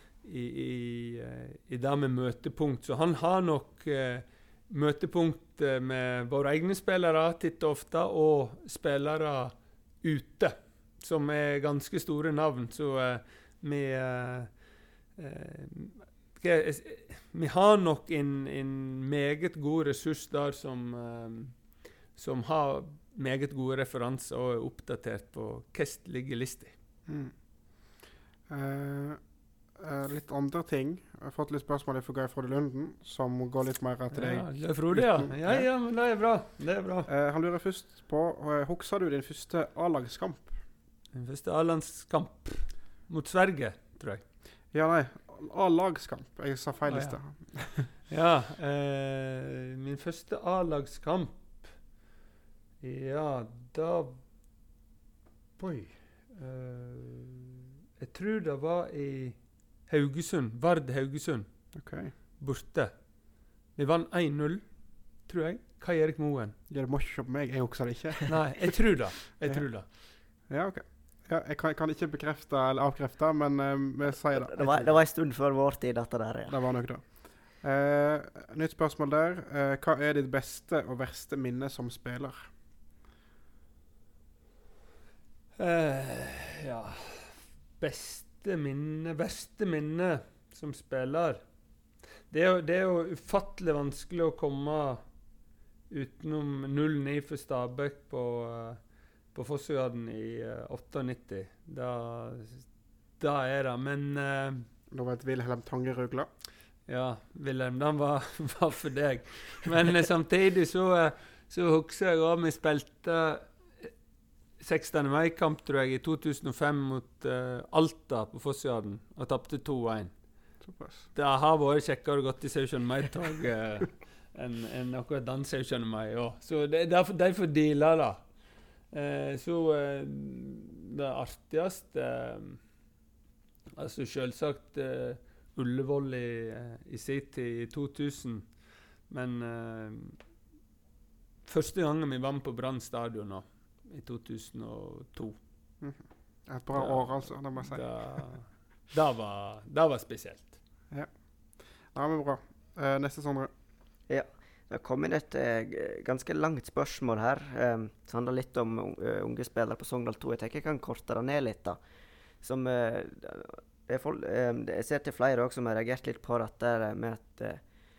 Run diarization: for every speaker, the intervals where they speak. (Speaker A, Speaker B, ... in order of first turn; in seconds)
Speaker A: 0.2-14.5, 15.2-21.6, 22.1-26.7, 34.1-37.1, 41.1-44.2, 46.9-47.2, 47.9-51.7, 52.8-54.2, 55.6-61.5, 62.4-62.9, 63.8-64.6, 65.3-66.6, 68.3-69.9, 85.6-91.4, 92.3-95.0, 95.9-98.8, 99.3-102.7, 103.2-104.6, 106.9-113.9, 114.6-120.1, 121.1-128.2, 128.9-132.6, 133.8-138.5, 139.1-140.2, 141.4-145.4, 146.7-150.5
Speaker B: 27.1-27.3, 28.5-29.2, 29.7-35.7, 37.1-40.5, 44.7-47.9, 61.7-62.1, 66.7-68.7, 70.5-74.9, 76.5-82.5, 104.9-106.3, 120.6-121.1, 145.8-148.0, 151.9-153.5
Speaker C: 74.1-76.6, 154.1-161.8, 162.4-167.6